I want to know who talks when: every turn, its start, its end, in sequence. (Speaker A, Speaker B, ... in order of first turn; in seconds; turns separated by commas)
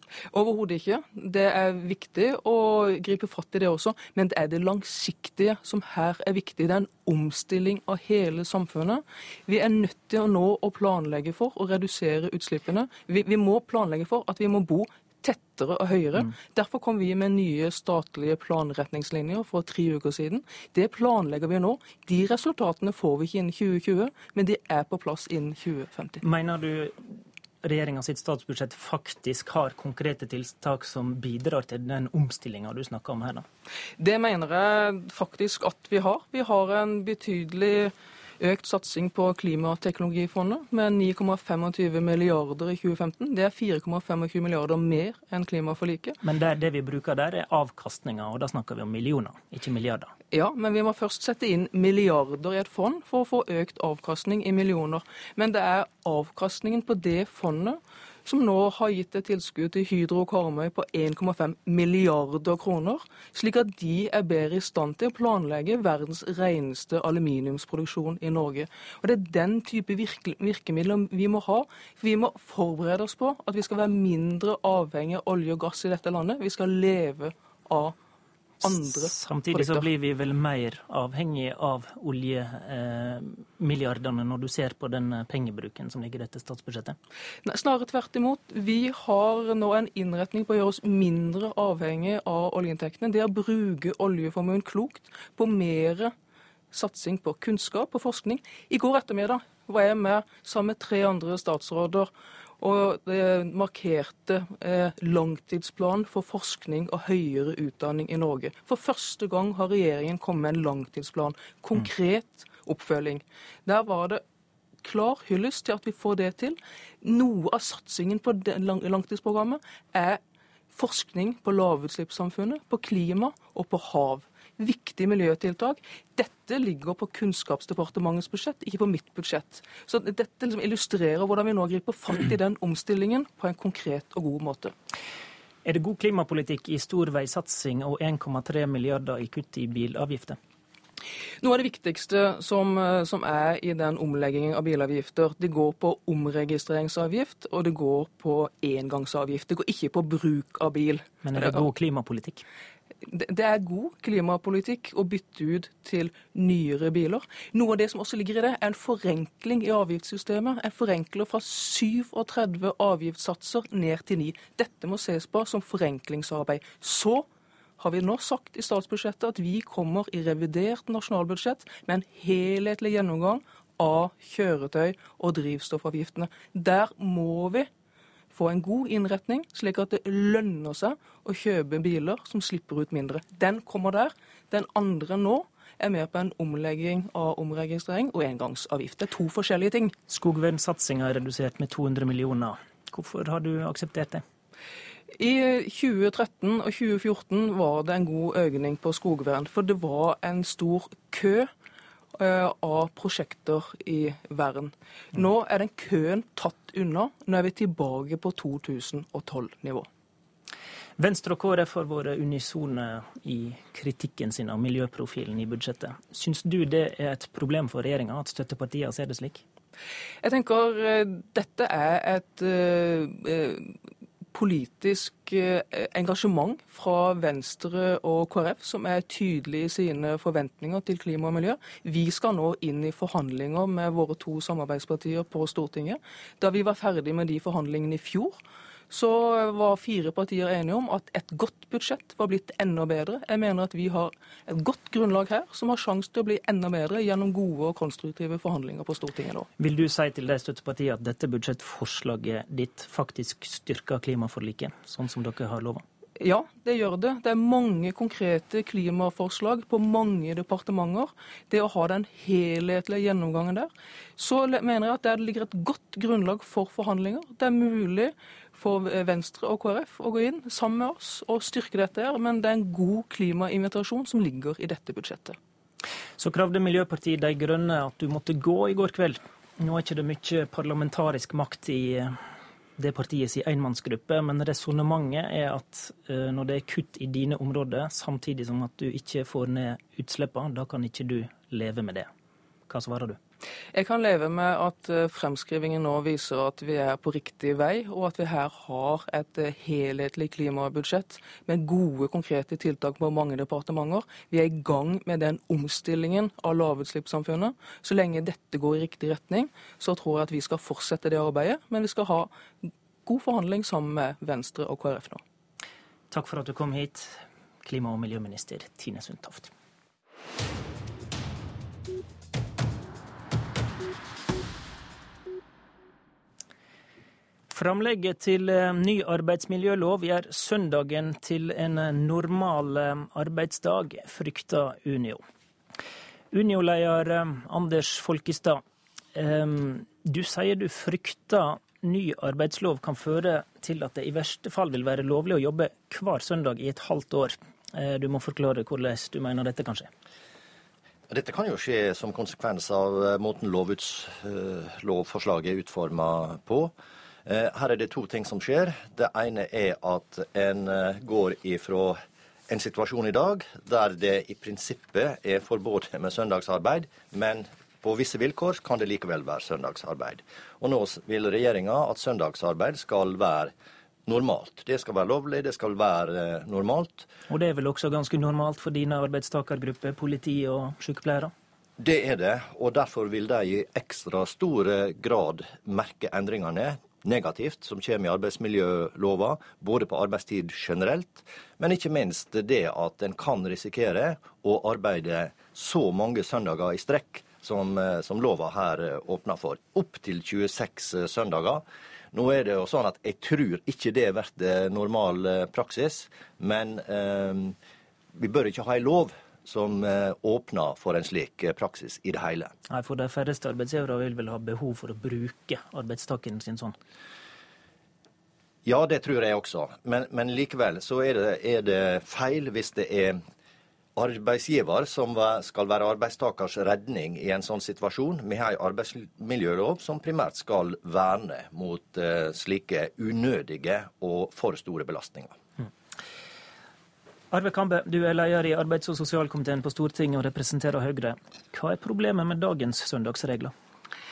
Speaker A: 0.3-26.2, Speaker B: 26.2-27.0, Speaker B: 27.6-33.4, Speaker A: 34.0-46.1, Speaker B: 46.2-50.1, Speaker A: 50.3-77.9, Speaker A: 78.6-79.9, Speaker B: 78.6-87.0, Speaker A: 87.5-96.1, Speaker A: 96.7-102.1, Speaker A: 102.6-114.2, Speaker A: 114.8-120.2, Speaker A: 120.7-134.7, Speaker B: 135.7-140.4, Speaker A: 141.4-151.7, Speaker B: 151.2-152.4, Speaker A: 153.1-167.2, Speaker A: 167.8-177.7, Speaker A: 178.3-189.9, Speaker B: 190.1-194.2, Speaker A: 195.2-201.5, Speaker A: 202.2-209.9, Speaker B: 211.0-219.4, Speaker A: 220.2-223.7, Speaker A: 224.3-238.4, Speaker A: 238.9-249.4, Speaker B: 249.6-255.8, Speaker A: 256.2-275.4, Speaker B: 276.2-282.2, Speaker B: 282.8-292.1, Speaker B: 292.7-293.2, Speaker A: 293.7-315.2, Speaker B: 316.1-319.5, Speaker B: 327.5-335.2, Speaker B: 336.3-338.6, Speaker B: 339.1-349.9, Speaker C: 351.1-356.7, Speaker C: 357.3-362.0, Speaker C: 362.5-373.5, Speaker C: 374.1-377.1, Speaker B: 377.3-381.3, Speaker C: 381.8-407.5, Speaker C: 408.1-412.5, Speaker B: 412.7-416.8, Speaker C: 418.6-423.2, Speaker C: 423.9-435.3, Speaker B: 437.3-443.5